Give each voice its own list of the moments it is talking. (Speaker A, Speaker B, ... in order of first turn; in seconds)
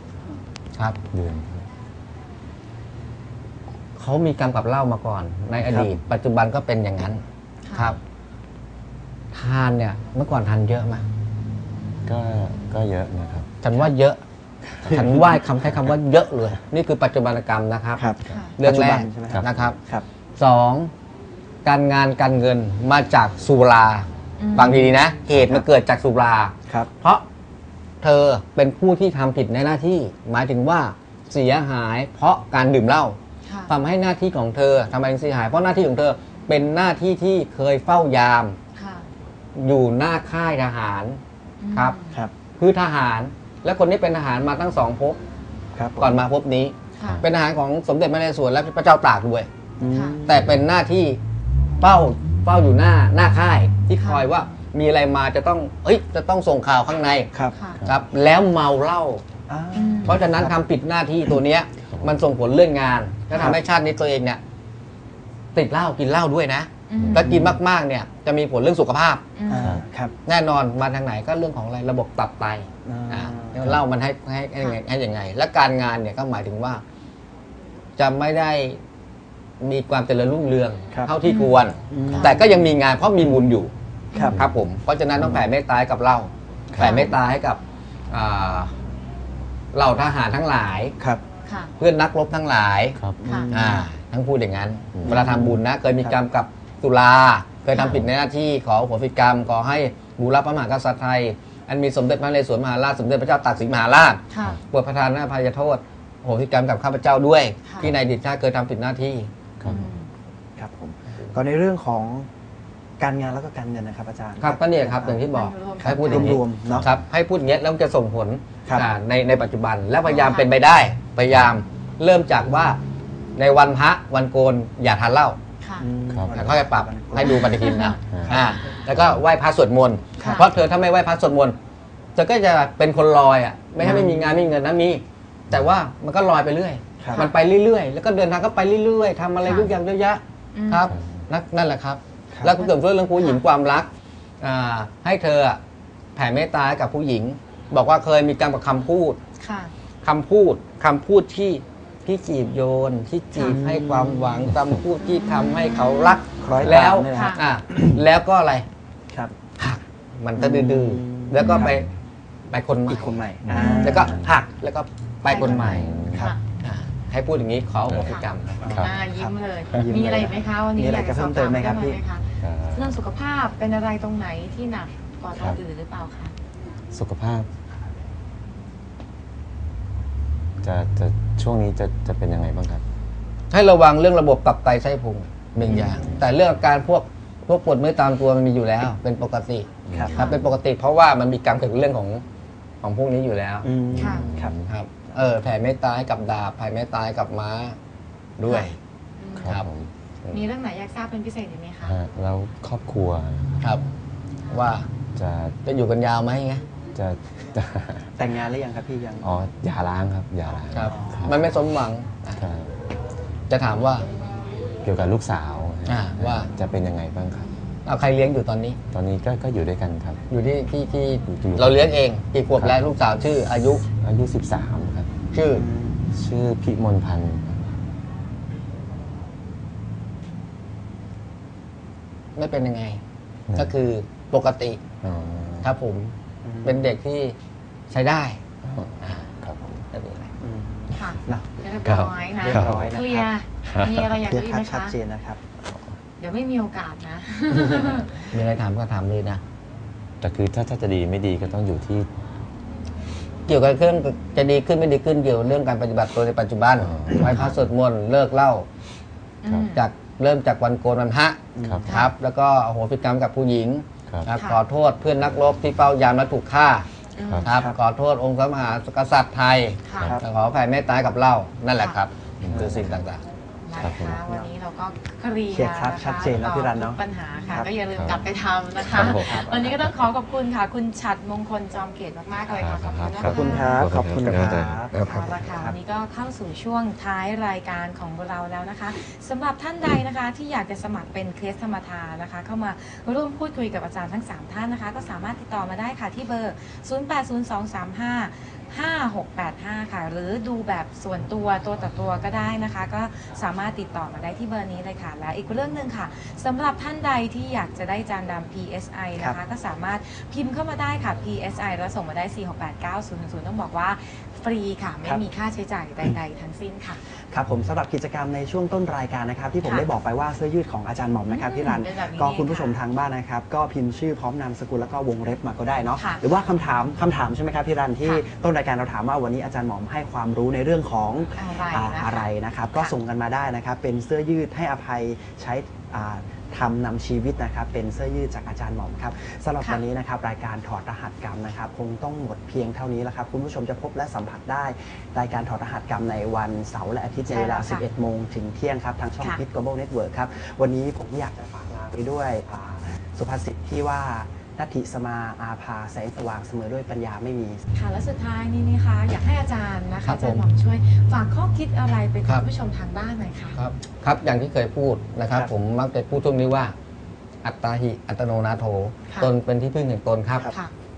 Speaker A: 1.1-1.7, 12.1-13.5, 14.8-15.1, 19.3-19.7, 61.9-62.2, 67.0-67.4, 69.5-69.8, 85.2-85.4, 86.7-87.0, 97.8-98.1, 109.6-109.9, 126.1-126.4, 128.1-129.2, 140.9-141.3, 156.5-156.8, 163.4-164.3, 165.5-166.3, 167.9-168.9, 172.4-173.0, 175.3-175.6, 176.9-177.5, 180.6-182.8, 189.9-190.5, 193.9-194.7, 199.3-199.9, 201.8-203.7, 205.1-205.6, 206.9-208.1, 209.2-211.5, 212.4-212.7, 214.8-217.5, 218.9-220.2, 221.3-221.9, 223.9-225.2, 226.1-227.6, 235.0-235.7, 238.6-239.7, 241.8-243.0, 243.6-244.2, 250.2-252.1, 256.8-257.7, 259.5-259.7, 261.6-261.9, 267.2-267.5, 269.9-270.2, 272.4-273.0, 273.8-274.2, 277.9-278.2, 278.8-280.0, 282.5-285.5
Speaker B: 4.0-7.2, 9.3-11.0, 13.6-14.2, 14.8-18.1, 18.6-19.8, 20.4-20.9, 21.6-27.2, 28.0-33.2, 33.7-38.6, 39.5-41.2, 42.6-45.2, 46.0-49.5, 50.3-51.2, 51.8-57.3, 57.8-59.2, 60.0-64.4, 65.5-69.2, 70.2-76.8, 78.0-78.8, 79.6-83.7, 84.3-88.7, 89.7-90.9, 91.8-93.0, 93.5-109.3, 114.4-122.8, 123.3-125.4, 126.3-131.6, 132.2-143.9, 144.4-145.6, 146.2-149.2, 150.0-158.7, 159.6-161.9, 162.5-163.2, 163.8-165.9, 166.6-168.7, 183.5-192.2, 192.8-193.7, 194.7-197.8, 198.4-198.8, 204.5-204.9, 205.6-206.6, 210.7-212.4, 213.5-214.1, 215.8-216.5, 217.8-218.8, 220.3-223.8, 225.3-225.6, 232.3-233.0, 233.5-234.8, 235.6-237.3, 237.9-238.4, 239.0-240.3, 248.3-249.4, 253.5-258.6, 259.7-266.9, 267.4-273.2, 360.0-360.4, 363.5-366.7, 367.4-370.5
Speaker C: 5.6-5.9, 17.9-20.1, 25.3-25.7, 45.7-46.2, 49.8-50.5, 59.5-60.6, 63.4-63.6, 67.2-67.6, 69.5-70.1, 72.8-73.8, 81.9-82.7, 84.1-84.4, 93.2-93.8, 95.0-96.2, 110.6-112.3, 113.0-115.2, 115.8-116.9, 120.0-120.4, 125.8-127.6, 128.3-128.6, 130.2-130.5, 133.8-134.4, 137.0-137.3, 142.3-142.6, 153.4-154.5, 156.4-158.0, 159.1-159.3, 160.3-161.8, 162.9-164.2, 165.3-166.3, 168.6-172.0, 185.6-186.1, 189.9-190.2, 193.6-194.6, 208.2-209.3, 210.8-211.2, 225.5-226.1, 236.4-236.9, 240.4-241.5, 242.4-243.3, 244.1-245.4, 247.5-248.1, 261.5-261.9, 267.5-267.8, 272.5-272.8, 275.5-277.7, 278.9-279.9, 283.2-285.7, 317.3-357.6
Speaker D: 7.7-7.9, 18.3-18.5, 24.4-24.9, 33.4-33.7, 38.8-39.1, 41.6-42.2, 47.0-47.2, 49.9-50.2, 54.0-54.2, 57.5-57.8, 59.7-60.2, 63.3-63.5, 66.9-67.3, 69.3-69.8, 81.2-81.6, 86.8-87.1, 91.4-91.7, 93.2-93.5, 97.7-98.0, 104.3-104.6, 109.6-110.1, 115.3-116.4, 120.2-120.5, 125.6-125.9, 127.2-128.0, 130.2-130.4, 139.4-139.7, 140.5-140.9, 142.6-143.4, 149.4-149.7, 155.4-156.2, 157.1-157.4, 161.4-161.7, 163.5-164.1, 165.3-166.4, 168.1-176.3, 190.1-190.4, 194.0-194.3, 198.4-199.5, 200.3-201.9, 240.9-244.9, 246.2-248.3, 259.4-259.8, 261.9-262.1, 267.1-267.5, 269.8-270.1, 273.6-283.9, 284.9-317.0, 321.3-322.8, 325.9-326.2, 331.3-332.9, 347.3-347.8, 357.7-363.6